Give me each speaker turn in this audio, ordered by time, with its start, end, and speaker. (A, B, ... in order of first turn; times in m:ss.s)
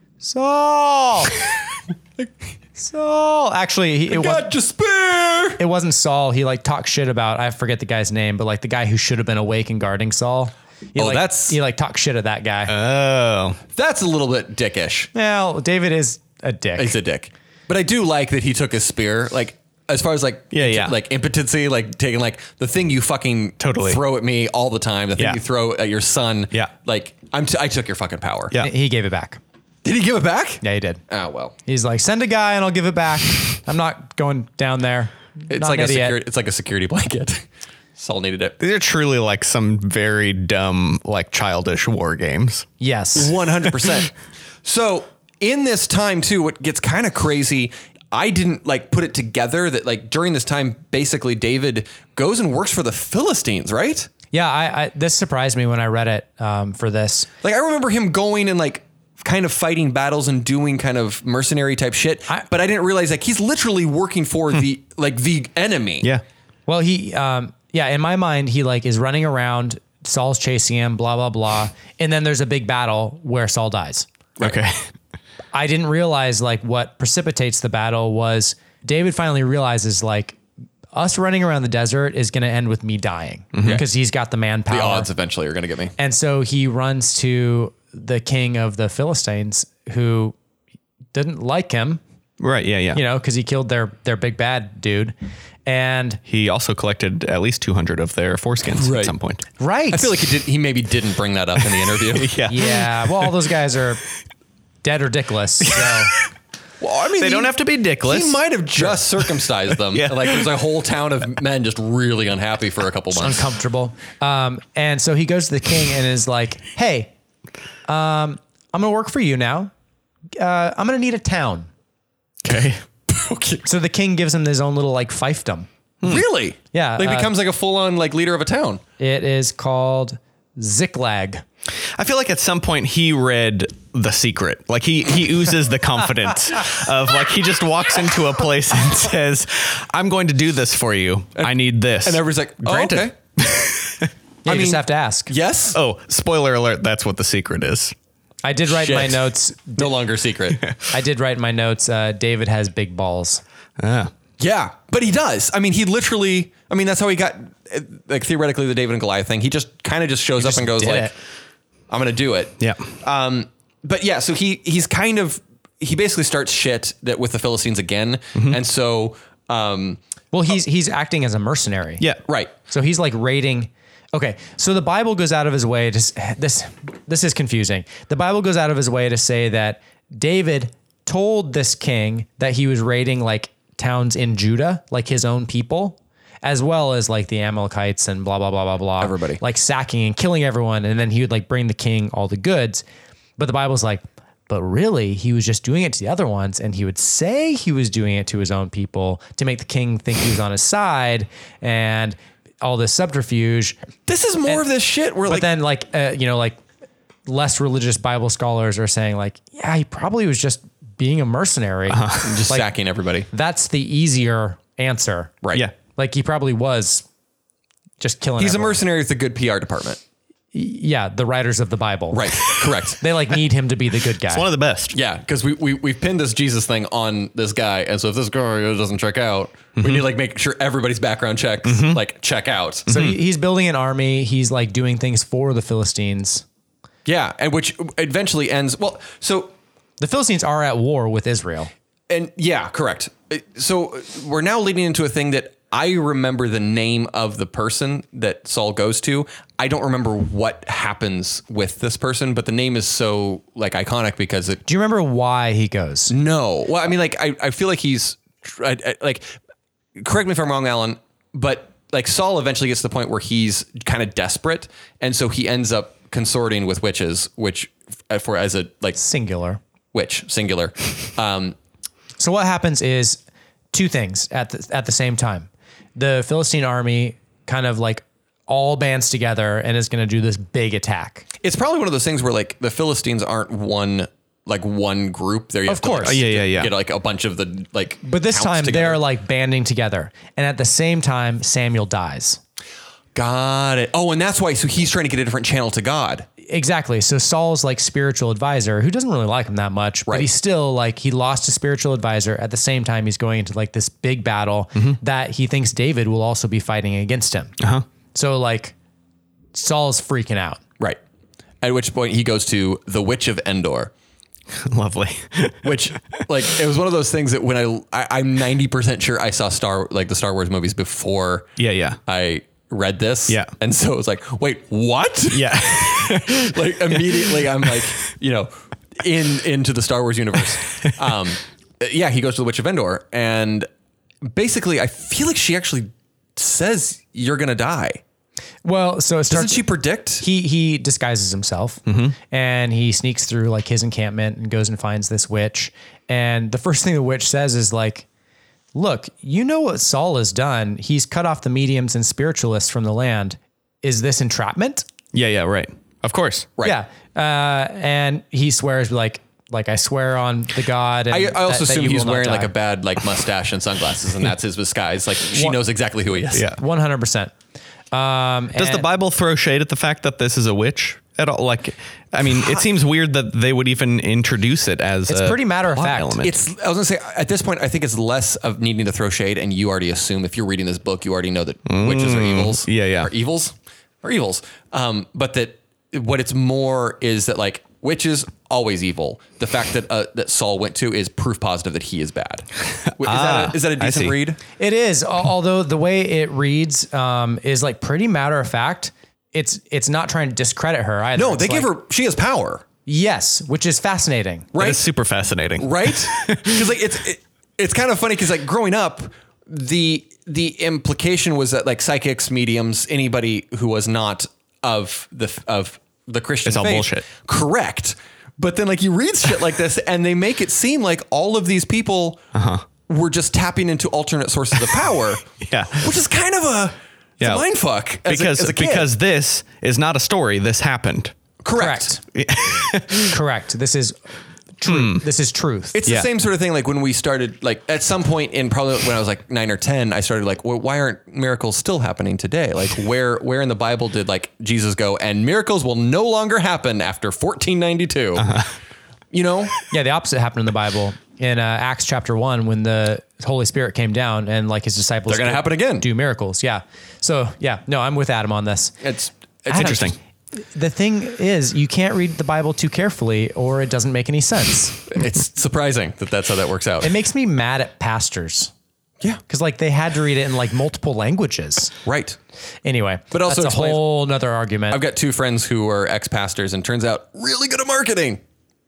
0:00.2-0:01.4 A
0:02.8-0:04.5 A
0:04.1-0:05.6 B
0:05.6-0:12.7 A
0:11.0-0:11.6 B
0:12.7-0:13.6 C
0:13.7-0:15.1 B
0:15.1-0:16.9 A
0:16.8-0:28.5 B
0:20.5-0:20.9 C
0:23.6-0:24.0 C
0:28.6-0:29.4 A
0:29.8-0:31.5 B
0:30.6-0:31.0 A
0:31.6-0:36.2 A
0:35.5-0:37.4 B
0:38.0-0:38.6 B
0:38.6-0:42.7 C
0:42.8-0:43.3 A
0:43.2-0:44.1 B
0:44.6-0:54.1 B
0:54.3-0:57.3 A
0:57.4-1:06.1 B
1:06.7-1:14.0 A
1:14.4-1:14.9 C
1:15.5-1:20.4 A
1:20.9-1:25.1 A
1:23.5-1:23.8 C
1:24.7-1:25.9 B
1:26.0-1:30.3 A
1:31.1-1:32.0 A
1:32.4-1:33.0 C
1:32.9-1:35.1 A
1:35.6-1:36.2 A
1:36.3-1:39.4 C
1:38.7-1:39.1 B
1:39.6-1:40.1 A
1:39.9-1:42.3 B
1:42.1-1:43.3 C
1:42.5-1:44.0 A
1:44.8-1:46.1 A
1:46.8-1:53.4 B
1:47.2-1:50.5 C
1:53.1-1:57.1 A
1:57.9-1:59.7 A
2:00.4-2:01.7 A
2:02.4-2:02.8 C
2:03.1-2:03.6 B
2:03.6-2:05.7 A
2:06.0-2:08.8 B
2:06.7-2:07.3 A
2:09.0-2:11.4 A
2:12.0-2:24.1 C
2:21.4-2:23.2 B
2:24.4-2:25.3 A
2:24.5-2:25.8 B
2:25.7-2:27.9 C
2:28.4-2:29.9 A
2:28.7-2:30.6 B
2:30.9-2:33.4 A
2:33.8-2:34.1 C
2:34.4-2:41.1 B
2:40.4-2:41.1 A
2:41.9-2:50.0 B
2:42.6-2:42.9 C
2:50.3-2:52.0 A
2:52.3-2:52.5 B
2:52.7-3:12.8 A
3:09.0-3:09.4 B
3:13.4-3:23.8 A
3:24.1-3:25.5 B
3:25.3-3:26.6 A
3:27.2-3:32.7 A
3:31.9-3:32.4 C
3:32.2-3:33.3 B
3:33.3-3:35.3 A
3:35.9-3:37.0 A
3:38.0-3:38.8 A
3:38.4-3:40.0 B
3:40.5-3:44.4 A
3:42.1-3:43.0 B
3:44.3-3:45.0 C
3:44.9-3:52.9 B
3:49.8-3:50.0 C
3:51.6-3:52.0 C
3:52.9-3:53.2 C
3:52.9-3:56.4 A
3:57.0-3:59.5 B
4:00.0-4:01.7 A
4:02.1-4:14.6 B
4:14.6-4:16.1 A
4:16.1-4:19.3 B
4:20.0-4:29.0 B
4:29.0-4:29.6 A
4:29.9-4:31.6 B
4:32.2-4:33.2 A
4:33.7-4:41.2 A
4:41.4-4:49.0 B
4:45.7-4:46.2 A
4:46.0-4:46.7 C
4:48.0-4:52.4 A
4:53.1-4:56.3 B
4:56.5-5:07.5 A
5:07.6-5:07.8 C
5:08.1-5:08.7 A
5:09.5-5:10.6 A
5:11.6-5:13.9 B
5:14.5-5:15.7 C
5:15.6-5:21.5 B
5:21.6-5:22.0 C
5:22.1-5:33.7 B
5:25.3-5:27.8 C
5:34.2-5:38.0 B
5:38.6-5:39.6 A
5:39.3-5:40.2 B
5:40.2-5:48.0 A
5:41.9-5:42.1 C
5:48.7-5:54.8 A
5:55.1-5:56.5 C
5:56.6-6:02.5 A
6:01.1-6:06.5 B
6:06.3-6:06.6 C
6:06.5-6:07.3 A
6:07.9-6:08.8 A
6:08.6-6:16.4 C
6:15.1-6:16.2 A
6:16.2-6:34.4 B
6:21.7-6:23.1 C
6:32.8-6:34.2 C
6:34.6-6:41.7 A
6:41.2-6:42.6 B
6:42.8-6:44.5 A
6:44.5-6:44.8 B
6:44.6-6:46.6 C
6:45.6-7:02.2 B
6:56.4-6:57.1 C
7:02.3-7:02.6 C
7:02.9-7:08.9 B
7:04.5-7:04.8 C
7:05.4-7:05.9 C
7:08.0-7:11.1 C
7:11.4-7:11.9 B
7:11.5-7:12.0 A
7:12.1-7:13.1 C
7:12.9-7:14.0 A
7:14.6-7:15.8 A
7:14.6-7:15.0 C
7:15.7-7:28.3 B
7:28.2-7:28.5 C
7:29.1-7:29.6 B
7:29.7-7:38.7 A
7:35.1-7:35.8 B
7:38.8-7:39.9 B
7:39.5-7:39.9 A
7:39.5-7:40.0 C
7:40.5-7:44.8 A
7:44.9-7:46.9 B
7:46.8-7:48.5 A
7:49.3-7:51.7 A
7:51.8-7:52.2 B
7:52.6-7:54.8 A
7:53.1-7:53.8 B
7:54.7-7:58.2 B